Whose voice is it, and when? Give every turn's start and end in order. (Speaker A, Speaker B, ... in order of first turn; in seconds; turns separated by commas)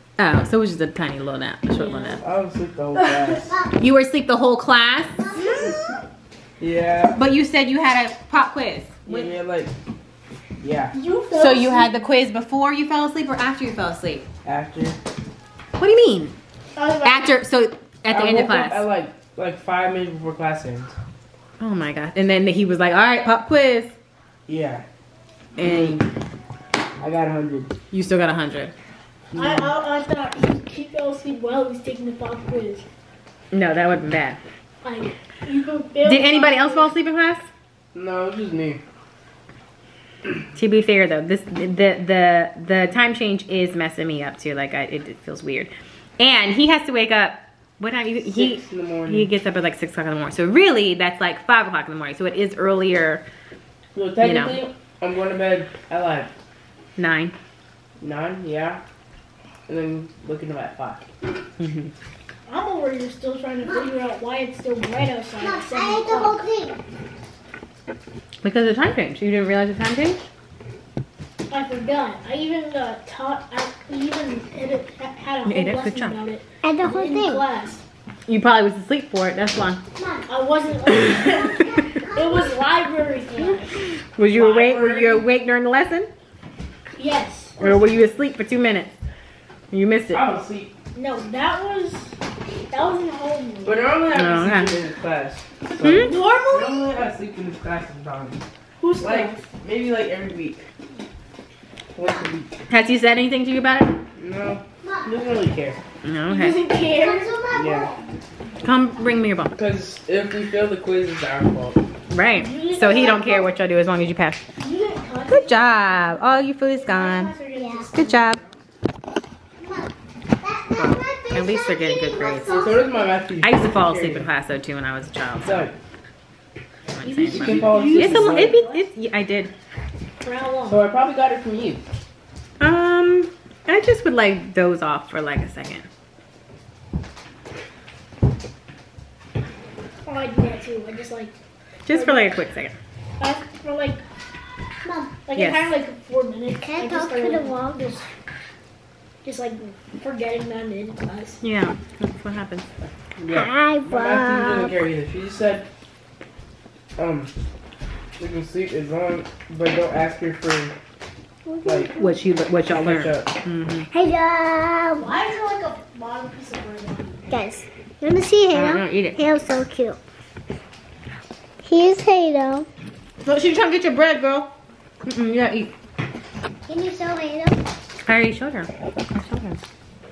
Speaker A: 0.2-2.2, Speaker B: 2.1-3.5, Speaker A: 3.8-5.6, Speaker B: 6.6-7.2, Speaker A: 7.1-9.3, Speaker B: 9.1-9.7, Speaker B: 10.6-10.9, Speaker C: 10.9-11.9, Speaker A: 11.3-14.2, Speaker B: 14.4-15.0, Speaker A: 15.8-16.4, Speaker C: 16.7-17.3, Speaker A: 17.0-18.9, Speaker B: 18.1-20.9, Speaker A: 21.6-23.9, Speaker B: 24.5-24.8, Speaker A: 25.6-26.0, Speaker B: 25.7-26.0, Speaker B: 27.0-27.7, Speaker A: 27.9-28.7, Speaker C: 29.3-32.9, Speaker A: 33.5-34.4, Speaker C: 34.8-36.9, Speaker A: 36.0-37.5, Speaker B: 37.9-38.8, Speaker A: 40.5-53.2, Speaker B: 48.3-49.3, Speaker B: 53.9-56.3, Speaker A: 54.2-54.6, Speaker A: 57.0-57.3, Speaker B: 58.0-58.8, Speaker B: 59.7-61.0, Speaker A: 61.6-61.9, Speaker C: 62.5-66.4, Speaker D: 65.3-66.8, Speaker A: 68.4-70.2, Speaker C: 71.5-77.8, Speaker A: 75.4-76.2, Speaker D: 76.6-77.4, Speaker A: 78.3-79.8, Speaker D: 79.9-80.3, Speaker C: 80.3-83.8, Speaker D: 81.6-82.0, Speaker A: 83.8-86.1, Speaker B: 84.3-85.2, Speaker C: 87.0-87.7, Speaker A: 87.6-88.9, Speaker A: 89.7-90.2, Speaker B: 90.1-90.7, Speaker C: 90.9-92.2, Speaker C: 92.7-93.9, Speaker B: 93.6-96.0, Speaker A: 94.1-94.8, Speaker A: 95.8-96.1, Speaker C: 95.9-96.9, Speaker B: 96.5-100.7, Speaker C: 98.8-99.4, Speaker B: 101.9-102.5, Speaker A: 102.7-104.0, Speaker B: 104.2-105.8, Speaker D: 104.8-105.5, Speaker A: 106.0-106.6, Speaker C: 106.3-107.4, Speaker D: 106.7-108.1, Speaker B: 107.5-107.9, Speaker A: 108.6-109.6, Speaker B: 109.5-111.8, Speaker A: 112.1-114.4, Speaker C: 112.3-113.5, Speaker C: 114.6-116.1, Speaker A: 115.3-117.3, Speaker C: 116.7-118.2, Speaker D: 117.5-117.9, Speaker A: 117.9-118.4, Speaker D: 119.6-122.8, Speaker A: 120.7-122.7, Speaker B: 122.6-124.3, Speaker A: 123.4-125.7, Speaker B: 125.4-125.7, Speaker A: 126.9-129.5, Speaker C: 127.0-128.8, Speaker B: 127.3-128.5, Speaker C: 130.2-130.8, Speaker B: 130.6-131.8, Speaker A: 132.6-135.9, Speaker C: 140.0-141.3, Speaker A: 141.8-142.8, Speaker C: 141.9-142.2, Speaker C: 143.2-144.0, Speaker D: 144.8-145.2, Speaker C: 145.2-148.1, Speaker A: 145.3-145.7, Speaker D: 146.6-147.8, Speaker C: 149.2-151.4, Speaker A: 151.4-152.7, Speaker B: 153.2-155.7, Speaker D: 153.3-154.7, Speaker B: 157.0-157.3, Speaker B: 158.2-160.7, Speaker D: 161.4-162.2, Speaker A: 161.9-163.9, Speaker B: 162.7-163.3, Speaker D: 163.9-165.1, Speaker C: 164.9-167.2, Speaker D: 167.3-170.0, Speaker A: 168.5-169.2, Speaker D: 171.6-172.7, Speaker A: 173.2-174.5, Speaker A: 175.0-175.7, Speaker D: 176.7-177.6, Speaker A: 178.0-179.6